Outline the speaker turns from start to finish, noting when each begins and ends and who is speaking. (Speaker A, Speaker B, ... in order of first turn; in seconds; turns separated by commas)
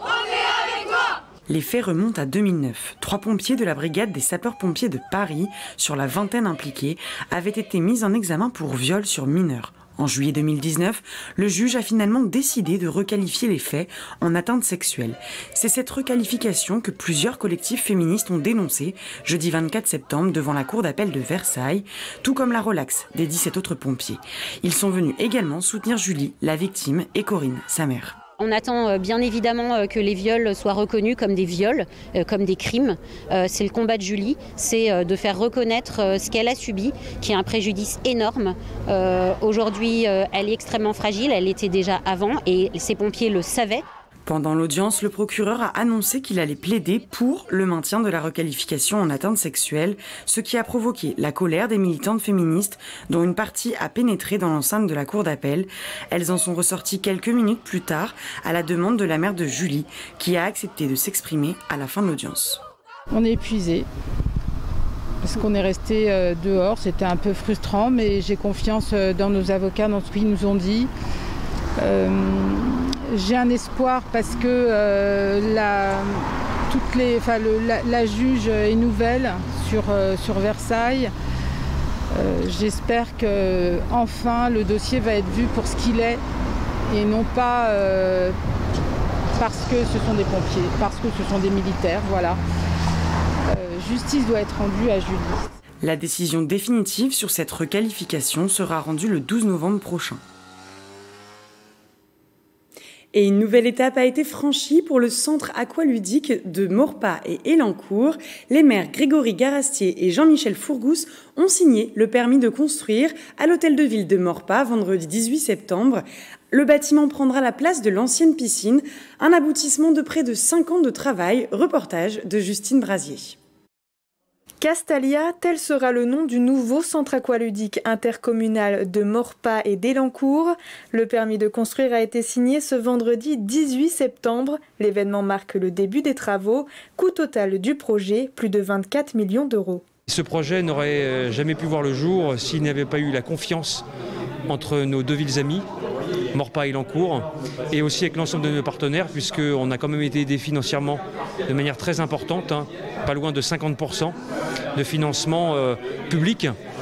Speaker A: 1.5-28.2, Speaker B: 28.4-43.8, Speaker A: 44.3-62.6, Speaker C: 63.1-63.9, Speaker C: 65.2-70.9, Speaker C: 71.8-81.1, Speaker C: 82.1-86.2, Speaker C: 86.9-88.4, Speaker C: 89.4-92.4, Speaker C: 93.5-95.4, Speaker A: 95.8-100.2, Speaker A: 103.1-123.4, Speaker D: 124.6-139.8, Speaker E: 140.1-143.8, Speaker E: 144.5-145.6, Speaker E: 146.3-154.1, Speaker E: 154.8-156.5